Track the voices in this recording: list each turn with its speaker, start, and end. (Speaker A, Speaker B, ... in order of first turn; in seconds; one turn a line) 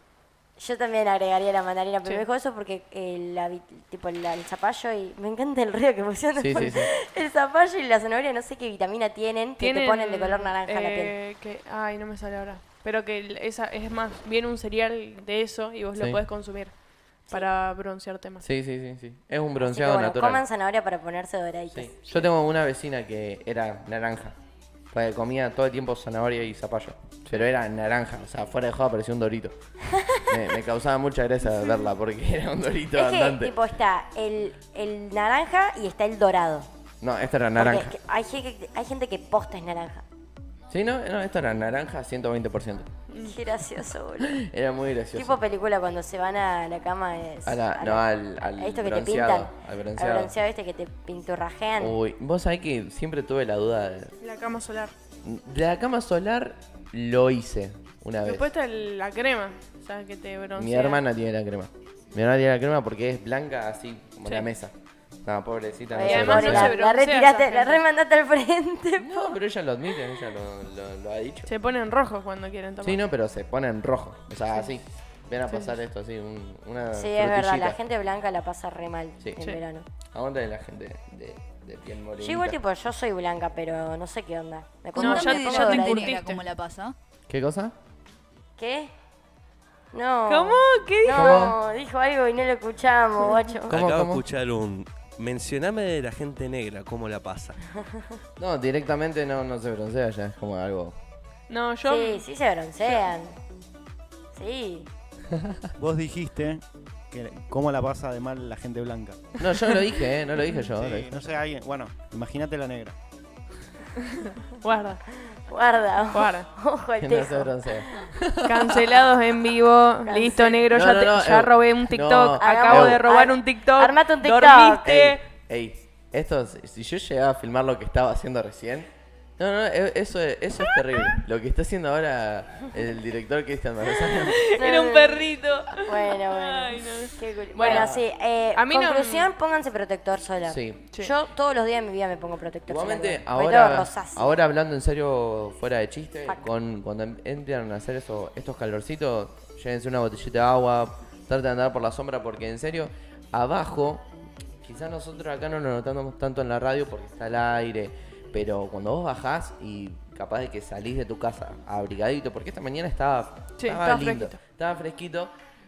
Speaker A: 0.6-11.2
Speaker B: 6.3-6.9
Speaker C: 9.6-18.4
Speaker B: 18.4-20.4
Speaker A: 19.6-22.3
Speaker B: 21.7-24.4
Speaker B: 24.9-29.5
Speaker A: 30.0-30.3
Speaker B: 30.3-33.5
Speaker A: 32.9-36.7
Speaker B: 37.0-37.9
Speaker A: 37.6-40.0
Speaker B: 40.7-42.9
Speaker C: 43.1-43.4
Speaker A: 43.2-44.4
Speaker B: 44.2-45.4
Speaker A: 45.1-52.0
Speaker B: 47.5-50.3
Speaker B: 51.8-54.1
Speaker C: 54.2-54.9
Speaker B: 55.2-58.5
Speaker C: 58.2-61.0
Speaker B: 60.5-64.7
Speaker B: 65.2-66.7
Speaker A: 65.9-69.3
Speaker C: 66.0-67.8
Speaker B: 69.0-71.5
Speaker C: 71.5-73.0
Speaker B: 72.8-77.8
Speaker C: 75.5-75.7
Speaker A: 76.9-79.9
Speaker B: 79.2-79.6
Speaker B: 80.1-82.6
Speaker A: 82.2-86.3
Speaker D: 85.0-86.9
Speaker C: 85.0-86.4
Speaker B: 87.3-87.7
Speaker A: 88.6-88.9
Speaker A: 89.9-93.8
Speaker C: 90.3-91.5
Speaker B: 91.1-91.5
Speaker E: 93.7-97.6
Speaker B: 93.7-94.2
Speaker B: 98.4-101.0
Speaker C: 101.5-102.3
Speaker A: 101.8-103.3
Speaker A: 104.3-104.9
Speaker F: 105.8-109.2
Speaker B: 109.4-111.2
Speaker F: 110.7-113.0
Speaker C: 114.0-115.0
Speaker A: 115.5-118.0
Speaker C: 116.1-116.5
Speaker B: 117.0-118.7
Speaker C: 118.4-125.2
Speaker A: 120.0-120.7
Speaker B: 120.7-123.0
Speaker A: 122.4-124.9
Speaker B: 124.8-134.4
Speaker C: 134.2-139.3
Speaker A: 134.5-135.3
Speaker A: 135.8-144.3
Speaker B: 137.6-138.0
Speaker B: 140.4-140.8
Speaker B: 142.7-154.0
Speaker B: 154.6-165.3
Speaker C: 163.6-164.4